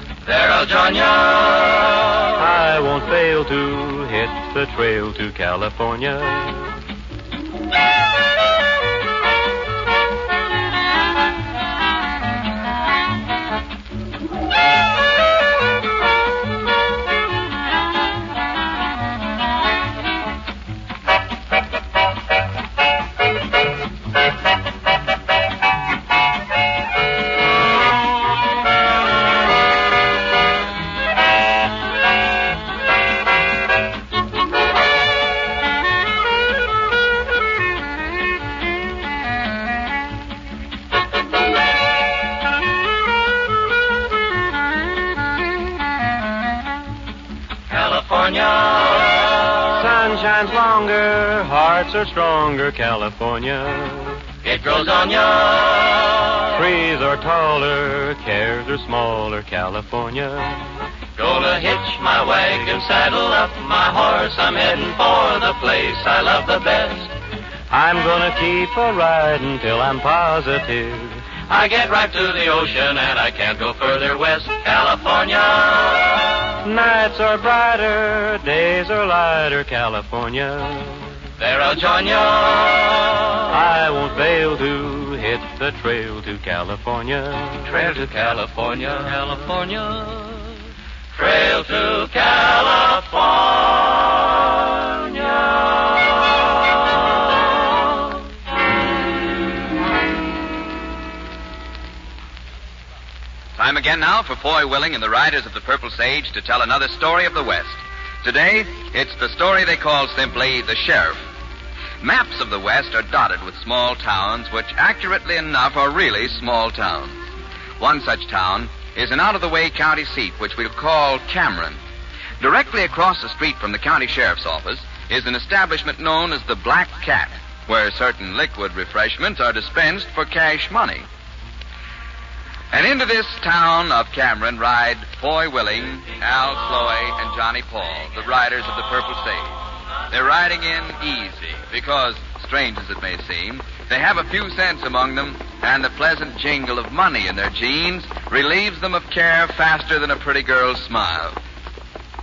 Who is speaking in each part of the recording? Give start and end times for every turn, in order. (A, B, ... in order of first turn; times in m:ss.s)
0:00.2-0:02.2 A
0:02.4-0:06.8 B
0:47.7-0:49.6 A
0:49.7-0:54.2 B
0:54.4-0:56.5 A
0:56.5-1:00.7 B
1:01.2-1:07.1 A
1:07.7-1:11.2 B
1:11.5-1:16.2 A
1:16.6-1:21.1 B
1:21.4-1:23.4 A
1:23.5-1:27.8 B
1:27.6-1:30.5 A
1:31.1-1:35.6 A
1:43.6-1:51.3 C
1:52.0-1:57.2 C
1:57.8-2:01.8 C
2:02.4-2:11.0 C
2:12.7-2:19.6 C
2:20.1-2:31.4 C